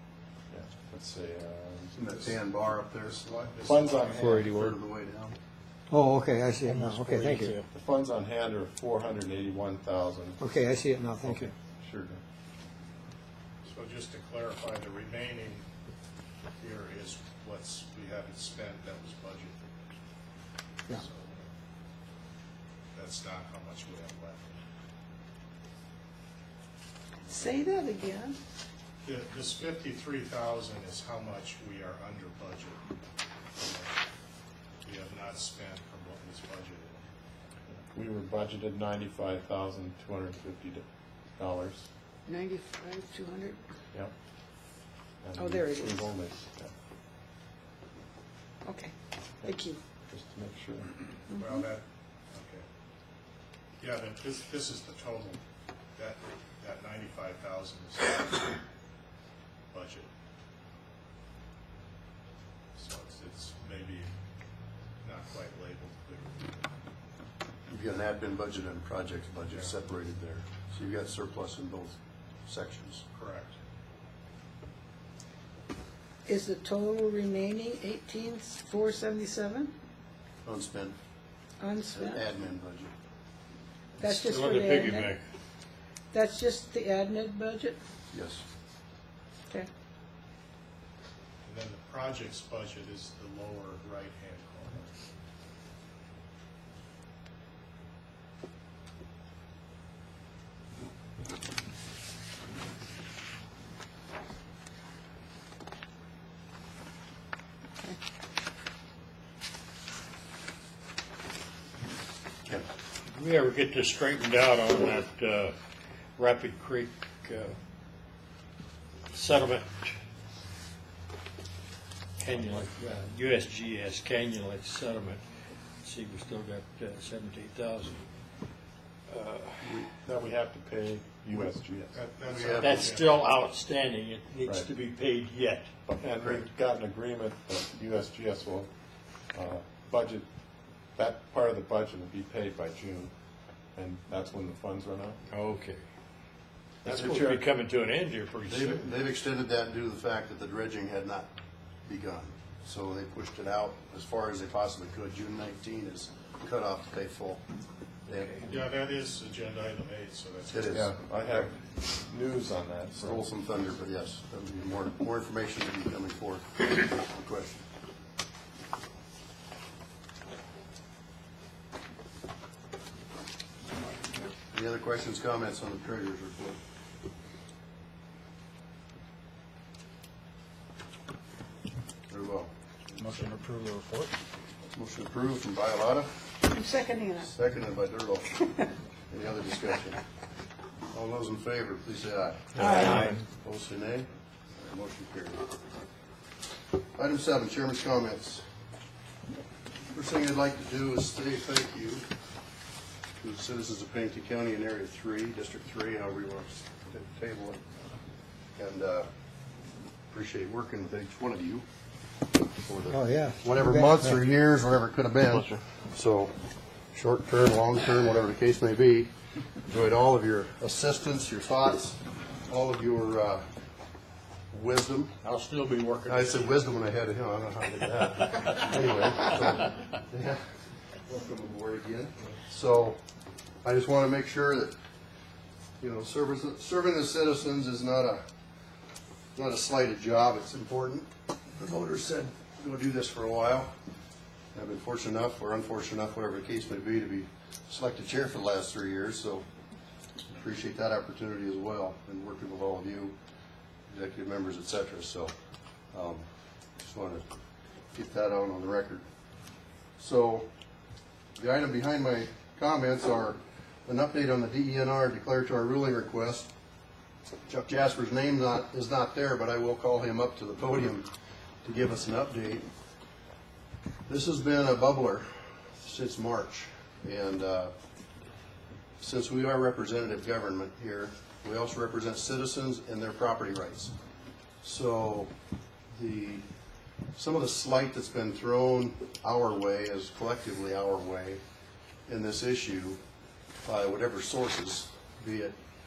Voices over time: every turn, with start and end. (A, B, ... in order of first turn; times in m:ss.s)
0:00.5-0:02.0 A
0:02.0-0:03.6 B
0:03.1-0:04.3 C
0:03.6-0:04.3 A
0:04.1-0:05.4 B
0:04.2-0:04.8 D
0:05.9-0:07.6 E
0:06.6-0:07.7 D
0:07.7-0:10.4 A
0:10.4-0:11.5 E
0:11.2-0:12.2 A
0:13.7-0:15.7 C
0:16.6-0:19.7 C
0:20.9-0:21.5 C
0:22.9-0:24.6 C
0:27.3-0:28.4 F
0:29.0-0:32.8 C
0:33.6-0:33.9 C
0:34.8-0:37.0 C
0:37.9-0:41.9 A
0:42.3-0:43.6 F
0:45.2-0:46.7 A
0:45.4-0:46.1 F
0:48.6-0:49.8 F
0:50.1-0:50.9 A
0:51.3-0:51.6 F
0:51.4-0:52.6 C
0:53.8-0:55.4 C
0:56.0-0:58.6 C
0:59.7-1:00.1 C
1:02.8-1:04.1 C
1:05.0-1:06.7 C
1:07.7-1:13.0 B
1:13.2-1:13.6 C
1:16.3-1:19.7 F
1:20.4-1:21.0 B
1:21.6-1:22.2 F
1:22.0-1:22.9 B
1:24.0-1:25.1 F
1:24.2-1:25.2 D
1:26.1-1:27.8 F
1:28.1-1:28.4 B
1:31.4-1:34.9 C
1:53.1-1:55.5 D
1:56.2-1:57.6 D
1:59.1-2:00.0 D
2:02.2-2:05.2 D
2:05.8-2:08.0 D
2:09.1-2:09.6 D
2:09.6-2:12.0 A
2:11.9-2:13.3 C
2:12.2-2:12.9 B
2:12.6-2:15.7 D
2:15.9-2:18.7 A
2:16.1-2:16.4 B
2:19.3-2:20.3 A
2:21.0-2:23.1 A
2:23.8-2:25.2 A
2:25.3-2:25.8 D
2:26.8-2:28.9 D
2:26.8-2:27.4 A
2:28.5-2:31.3 B
2:31.9-2:37.4 B
2:38.1-2:38.4 B
2:38.4-2:40.9 C
2:40.5-2:40.9 B
2:40.7-2:43.2 A
2:43.0-2:47.7 B
2:54.5-2:56.6 B
3:02.1-3:02.5 B
3:04.7-3:06.1 B
3:06.5-3:07.3 F
3:07.2-3:08.5 B
3:09.1-3:10.0 B
3:10.9-3:15.4 B
3:12.6-3:13.1 F
3:17.0-3:18.4 B
3:19.9-3:22.0 B
3:23.2-3:27.6 B
3:28.6-3:29.1 B
3:30.1-3:31.6 B
3:32.6-3:36.3 B
3:32.9-3:34.2 E
3:36.9-3:39.1 B
3:39.7-3:43.5 B
3:44.5-3:45.1 B
3:45.2-3:46.5 D
3:46.1-3:50.4 B
3:51.0-3:53.0 B
3:53.6-3:54.8 B
3:55.8-3:58.2 B
3:59.4-4:03.7 B
4:04.5-4:09.5 B
4:10.4-4:13.2 B
4:13.9-4:15.3 B
4:15.9-4:16.2 B
4:16.8-4:17.2 B
4:17.9-4:19.0 B
4:20.0-4:20.5 B
4:21.4-4:26.5 B
4:27.5-4:31.1 B
4:31.6-4:32.7 B
4:34.1-4:37.7 B
4:39.0-4:43.9 B
4:44.6-4:45.3 B
4:46.0-4:46.4 B
4:47.2-4:51.4 B
4:52.1-4:53.0 B
4:53.6-4:55.6 B